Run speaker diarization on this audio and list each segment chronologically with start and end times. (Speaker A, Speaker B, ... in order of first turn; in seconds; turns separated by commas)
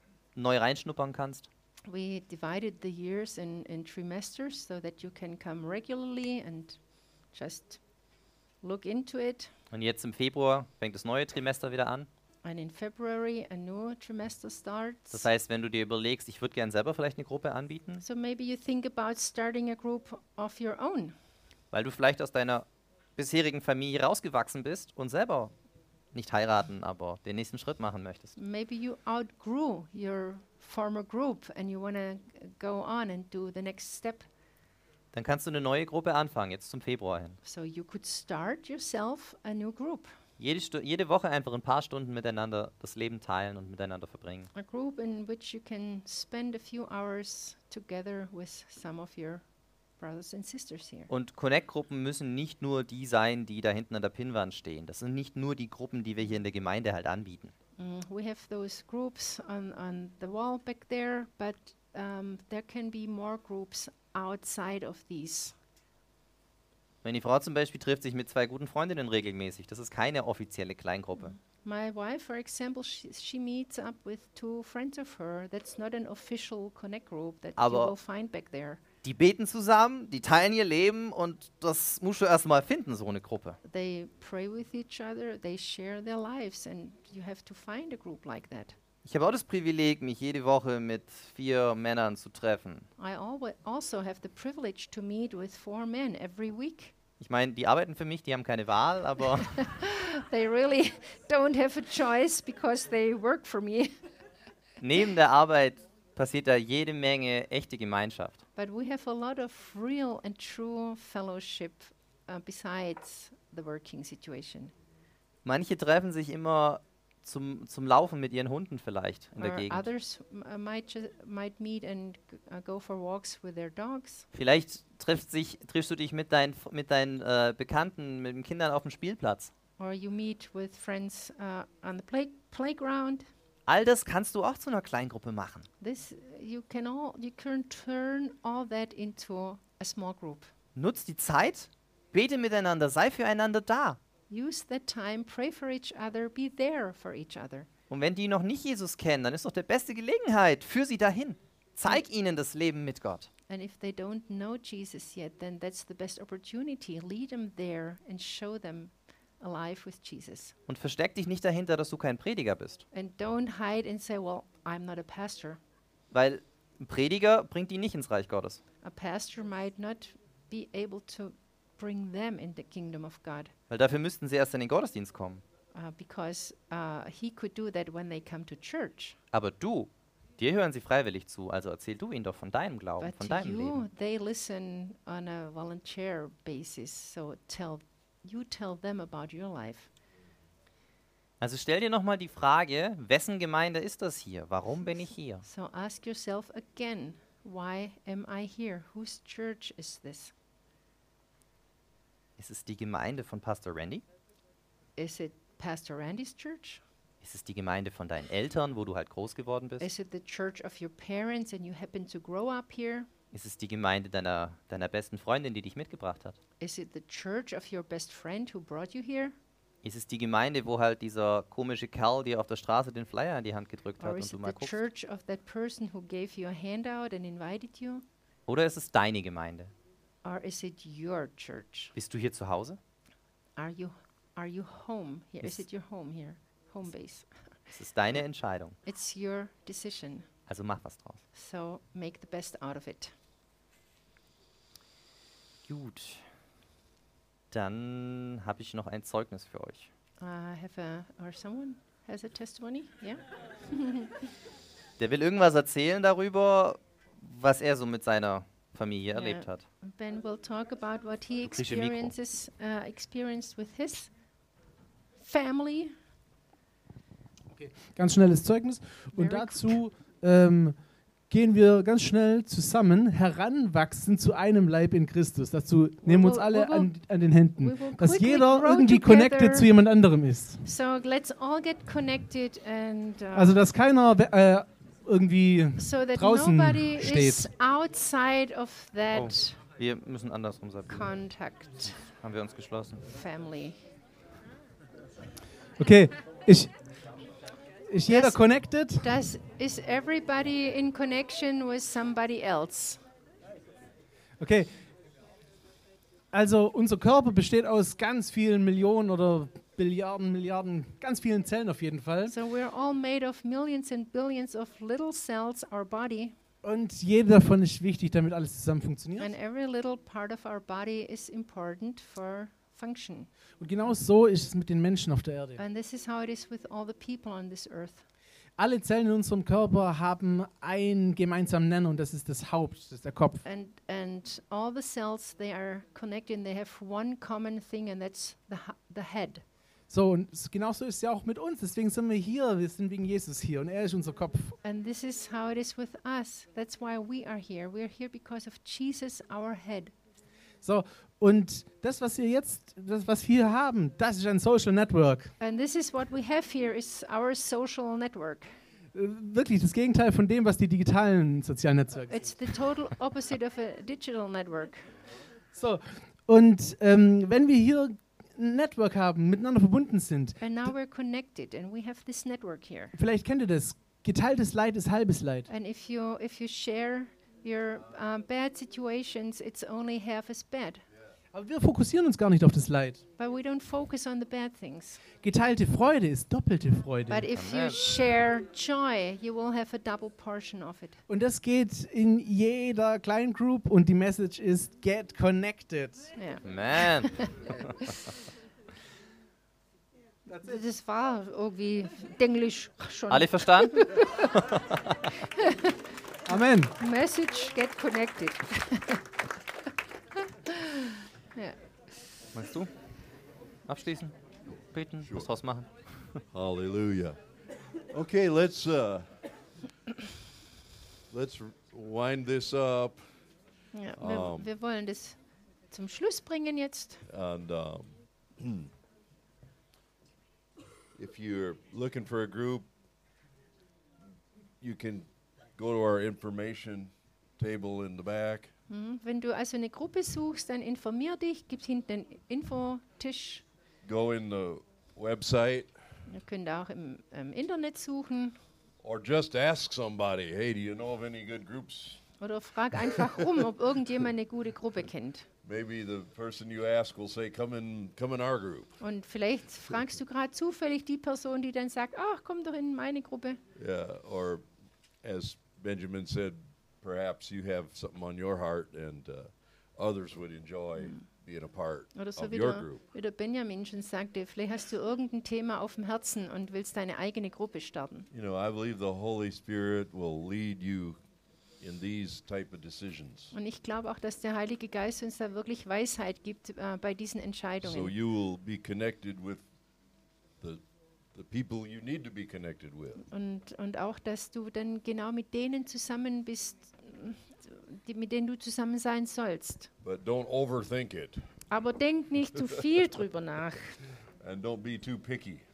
Speaker A: 0.4-1.5, Speaker B: 1.9-6.8, Speaker B: 7.3-7.8, Speaker B: 8.6-9.5, Speaker A: 9.7-12.1, Speaker B: 12.4-15.3, Speaker A: 15.1-18.0, Speaker B: 18.0-21.1, Speaker A: 21.7-25.5, Speaker A: 26.1-28.4, Speaker B: 28.4-34.3, Speaker A: 35.1-37.4, Speaker B: 37.4-40.1, Speaker A: 40.4-44.5, Speaker B: 44.5-49.4, Speaker B: 50.0-51.1, Speaker A: 51.1-57.5, Speaker B: 57.8-65.5, Speaker A: 67.0-71.4, Speaker B: 71.4-78.8, Speaker A: 77.6-78.0, Speaker A: 79.0-83.6, Speaker B: 83.6-88.8, Speaker A: 89.0-92.9, Speaker B: 93.0-96.9, Speaker A: 97.2-99.6, Speaker B: 99.3-103.9, Speaker A: 104.8-108.4, Speaker B: 108.6-114.7, Speaker A: 115.5-119.9, Speaker B: 119.4-124.3, Speaker A: 124.3-129.5, Speaker B: 129.8-133.3, Speaker A: 133.7-135.7, Speaker B: 135.8-140.5, Speaker A: 140.8-144.0, Speaker B: 144.3-147.7, Speaker A: 147.9-153.3, Speaker B: 153.5-160.6, Speaker A: 160.7-162.8, Speaker B: 162.9-165.6, Speaker A: 166.1-168.6, Speaker B: 168.8-173.5, Speaker A: 173.7-175.4, Speaker B: 175.7-179.2, Speaker A: 179.3-183.8, Speaker B: 183.0-189.9, Speaker A: 191.4-195.4, Speaker B: 195.4-200.3, Speaker A: 202.4-204.0, Speaker B: 205.0-206.8, Speaker A: 207.2-209.9, Speaker B: 209.8-213.1, Speaker A: 213.3-216.4, Speaker B: 216.6-219.4, Speaker A: 219.8-224.8, Speaker B: 224.0-228.1, Speaker A: 228.5-229.7, Speaker B: 230.2-231.9, Speaker A: 231.9-232.8, Speaker B: 233.6-237.3, Speaker A: 237.7-238.8, Speaker B: 238.8-240.3, Speaker A: 240.5-241.2, Speaker B: 241.3-243.1, Speaker A: 245.7-246.2, Speaker A: 247.5-249.9, Speaker B: 250.2-254.3, Speaker A: 255.0-259.6, Speaker B: 259.1-264.1, Speaker A: 261.4-262.1, Speaker B: 265.2-266.0, Speaker C: 267.5-270.8, Speaker B: 269.1-269.8, Speaker C: 271.3-280.6, Speaker B: 276.0-276.9, Speaker B: 277.6-279.7, Speaker B: 280.6-283.6, Speaker C: 283.3-287.5, Speaker B: 285.8-289.6, Speaker A: 289.1-291.1, Speaker B: 290.9-292.0, Speaker A: 292.0-293.0, Speaker B: 293.1-293.8, Speaker C: 295.8-296.8, Speaker C: 297.9-299.1, Speaker B: 298.1-303.0, Speaker C: 304.4-304.7, Speaker C: 306.3-312.3, Speaker B: 312.3-316.4, Speaker C: 316.6-319.3, Speaker B: 319.2-323.3, Speaker C: 323.6-325.6, Speaker B: 325.6-328.1, Speaker C: 328.6-333.4, Speaker B: 333.4-339.4, Speaker C: 339.9-344.6, Speaker B: 344.6-349.9, Speaker C: 350.6-355.3, Speaker B: 355.4-358.5, Speaker C: 358.9-362.5, Speaker B: 362.1-364.9, Speaker C: 365.5-370.7, Speaker B: 370.4-372.9, Speaker C: 372.9-375.5, Speaker B: 375.5-380.8, Speaker C: 381.3-383.0, Speaker B: 383.2-385.0, Speaker C: 385.2-387.3, Speaker B: 387.1-391.0, Speaker A: 387.3-387.8, Speaker C: 391.1-396.1, Speaker B: 396.2-397.9, Speaker A: 396.4-397.5, Speaker B: 400.4-404.4, Speaker A: 403.1-405.2, Speaker B: 405.1-405.9, Speaker C: 406.3-406.7, Speaker B: 406.8-409.0, Speaker B: 410.4-411.6, Speaker A: 412.3-412.7, Speaker A: 413.6-414.2, Speaker A: 414.7-416.2, Speaker D: 415.0-415.3, Speaker D: 416.3-417.2, Speaker D: 417.9-419.1, Speaker D: 421.1-423.1, Speaker B: 423.7-425.2, Speaker D: 424.0-424.5, Speaker B: 425.7-427.0, Speaker D: 427.1-428.7, Speaker D: 431.0-432.7, Speaker D: 434.6-438.5, Speaker B: 438.7-443.4, Speaker D: 443.8-445.7, Speaker B: 446.1-448.4, Speaker D: 448.8-452.0, Speaker B: 452.2-455.3, Speaker D: 455.4-458.8, Speaker B: 458.8-463.4, Speaker D: 463.6-464.5, Speaker D: 465.0-472.8, Speaker B: 470.8-471.0, Speaker B: 471.9-478.1, Speaker D: 478.1-481.0, Speaker D: 481.6-483.3, Speaker B: 483.3-487.9, Speaker D: 487.6-489.5, Speaker D: 491.1-493.0, Speaker B: 493.1-499.7, Speaker D: 499.8-501.3, Speaker B: 501.5-503.8, Speaker D: 504.2-505.4